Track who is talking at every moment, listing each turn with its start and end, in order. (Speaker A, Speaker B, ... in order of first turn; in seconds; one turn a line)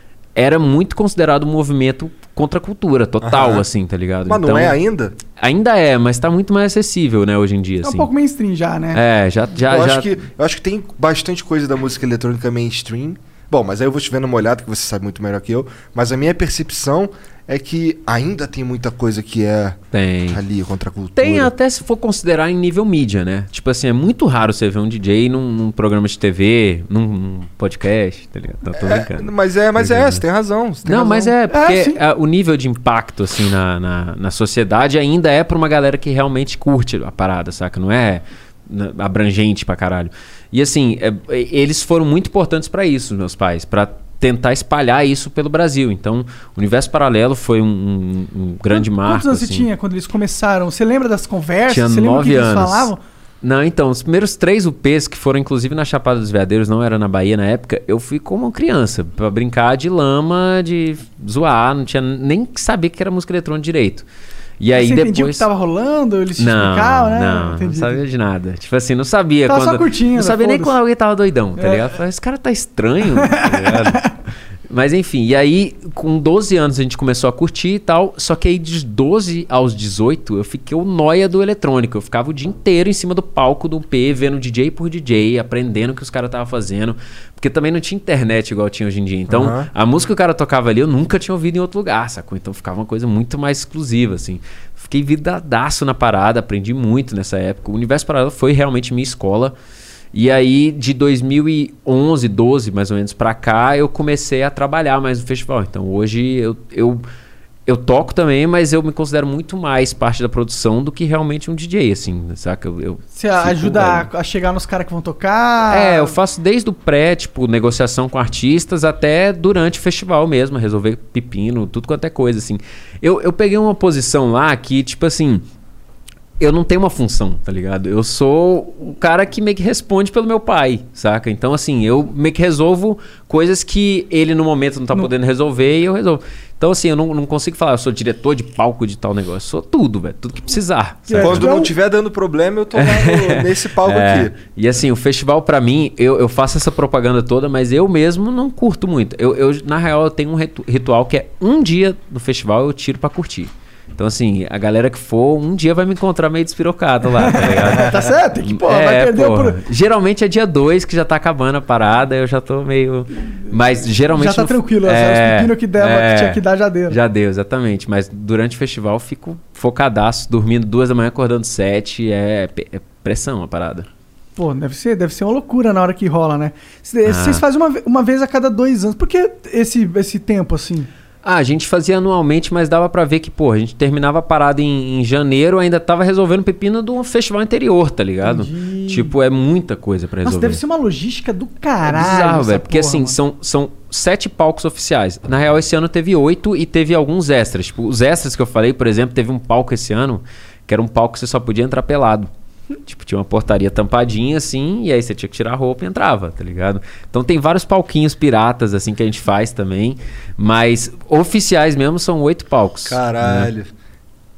Speaker A: 0.3-4.8
Speaker B: 3.2-3.6
Speaker B: 4.2-5.2
Speaker A: 5.3-8.1
Speaker C: 7.8-9.0
Speaker A: 8.9-10.2
Speaker B: 9.6-21.5
Speaker A: 19.9-20.4
Speaker A: 21.1-30.2
Speaker B: 28.7-31.3
Speaker A: 30.9-49.7
Speaker C: 31.5-32.0
Speaker C: 48.7-53.0
Speaker A: 51.7-52.9
Speaker A: 53.4-64.1
Speaker A: 64.6-65.5
Speaker C: 64.7-68.0
Speaker A: 66.4-74.1
Speaker C: 69.5-70.7
Speaker C: 71.6-71.9
Speaker C: 73.2-74.1
Speaker A: 74.7-99.5
Speaker B: 89.3-89.7
Speaker A: 100.1-107.0
Speaker A: 107.7-114.1
Speaker C: 113.1-116.1
Speaker A: 115.7-125.4
Speaker A: 126.4-141.5
Speaker C: 141.1-141.7
Speaker B: 141.2-144.3
Speaker A: 142.8-173.9
Speaker C: 157.2-159.6
Speaker C: 164.1-167.0
Speaker C: 174.3-180.9
Speaker A: 177.0-177.4
Speaker A: 181.2-190.6
Speaker C: 188.2-189.1
Speaker C: 190.2-193.2
Speaker A: 191.8-202.3
Speaker A: 202.8-213.5
Speaker B: 212.8-213.7